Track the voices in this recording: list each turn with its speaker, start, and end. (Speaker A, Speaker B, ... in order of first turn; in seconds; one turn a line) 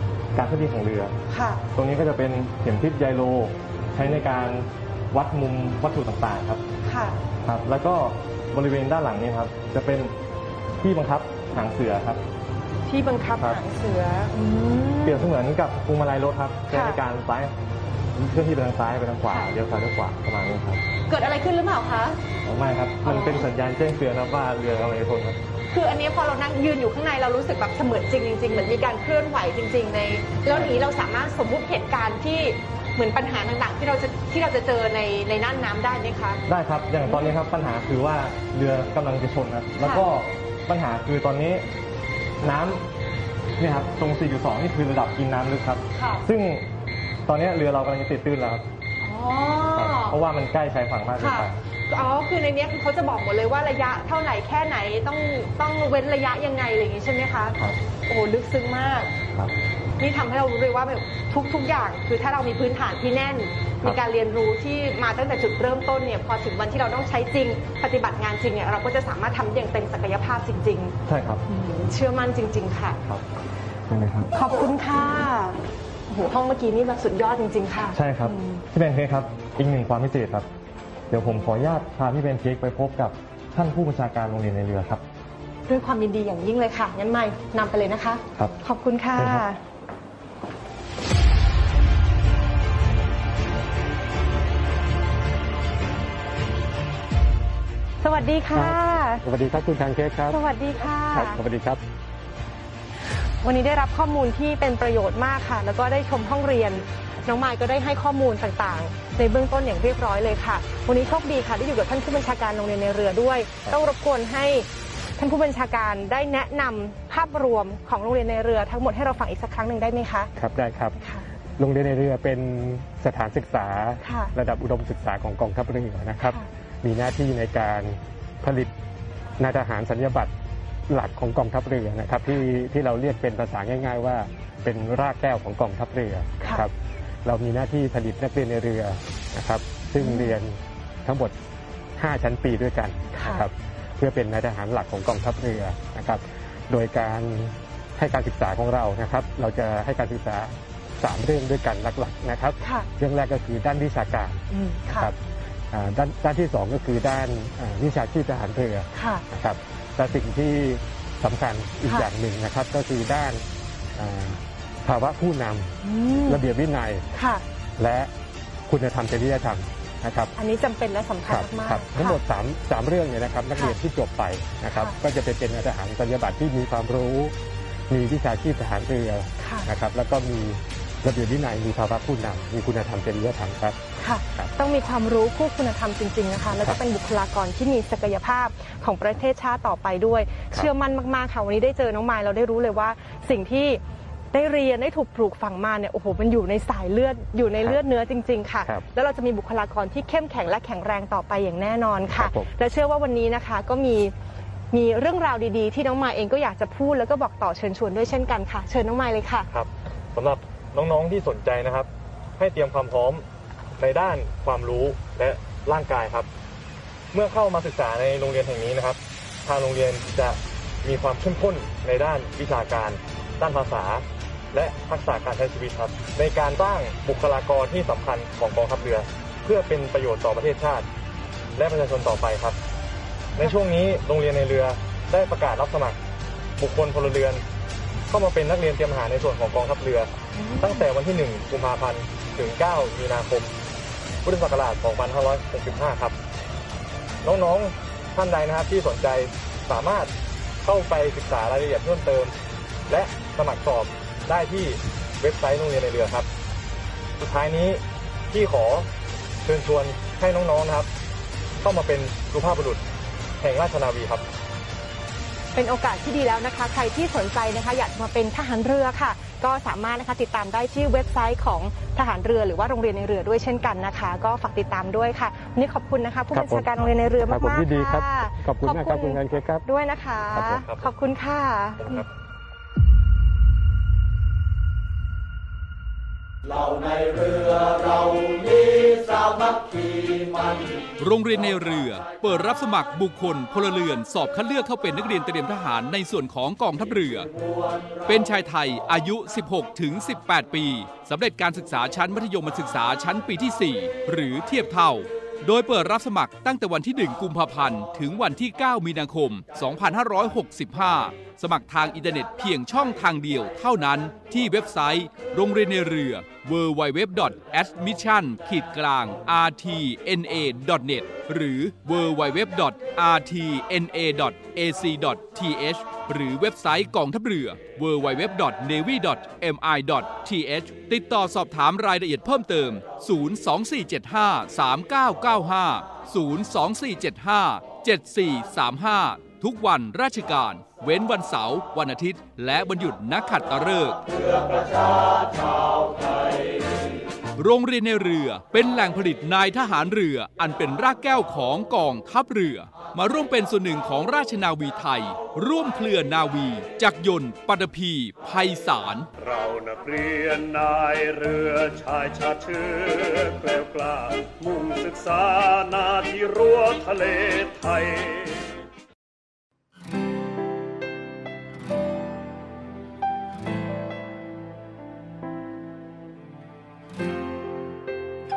Speaker A: 0.3-1.1
Speaker B: 1.3-1.6
Speaker A: 1.7-6.6
Speaker B: 6.8-7.2
Speaker A: 7.4-10.1
Speaker A: 10.8-12.2
Speaker B: 12.8-15.3
Speaker A: 15.0-17.5
Speaker B: 16.7-17.0
Speaker A: 18.1-20.8
Speaker B: 21.1-22.2
Speaker A: 22.4-25.4
Speaker B: 23.0-23.5
Speaker B: 25.7-36.4
Speaker A: 30.5-30.8
Speaker A: 36.5-41.7
Speaker B: 37.0-37.3
Speaker A: 42.4-42.8
Speaker A: 43.6-46.7
Speaker B: 45.9-46.2
Speaker A: 47.3-48.6
Speaker B: 49.0-50.1
Speaker A: 49.7-51.5
Speaker B: 51.2-59.1
Speaker B: 60.0-70.9
Speaker A: 71.0-71.4
Speaker B: 71.5-73.0
Speaker A: 73.9-74.3
Speaker B: 74.3-78.6
Speaker A: 77.9-80.5
Speaker A: 81.1-85.0
Speaker B: 85.7-89.6
Speaker B: 98.0-99.2
Speaker C: 98.5-100.4
Speaker B: 100.3-101.4
Speaker C: 101.1-101.8
Speaker B: 103.4-114.7
Speaker B: 115.2-120.3
Speaker C: 120.3-121.0
Speaker C: 121.6-128.7
Speaker B: 124.0-124.3
Speaker B: 126.2-126.5
Speaker C: 129.4-130.3
Speaker C: 130.9-136.7
Speaker B: 136.4-136.7
Speaker C: 137.2-141.3
Speaker B: 140.0-140.3
Speaker C: 142.0-155.2
Speaker B: 143.2-143.4
Speaker B: 152.6-152.9
Speaker B: 154.5-155.1
Speaker C: 155.7-163.4
Speaker B: 158.9-159.2
Speaker C: 163.9-165.7
Speaker B: 165.8-166.4
Speaker C: 166.2-167.1
Speaker B: 167.1-167.4
Speaker C: 167.8-168.1
Speaker C: 168.7-170.3
Speaker B: 170.4-172.2
Speaker C: 171.2-177.3
Speaker C: 177.9-183.8
Speaker B: 179.4-179.7
Speaker B: 184.0-204.1
Speaker C: 202.1-202.5
Speaker B: 204.7-209.5
Speaker A: 209.5-213.2
Speaker A: 213.8-216.3
Speaker A: 217.1-230.9
Speaker A: 231.6-232.6
Speaker A: 233.4-236.0
Speaker A: 236.6-237.4
Speaker A: 238.1-243.5
Speaker B: 240.3-240.8
Speaker A: 244.2-246.2
Speaker A: 247.2-250.1
Speaker A: 250.6-252.3
Speaker A: 252.9-256.3
Speaker A: 257.2-258.9
Speaker A: 259.4-260.9
Speaker A: 261.6-262.8
Speaker A: 263.4-264.2
Speaker B: 265.5-282.1
Speaker C: 276.3-276.7
Speaker C: 277.3-279.6
Speaker C: 280.4-280.7
Speaker D: 291.0-297.3
Speaker D: 298.1-344.0
Speaker D: 347.4-359.1
Speaker E: 359.2-368.3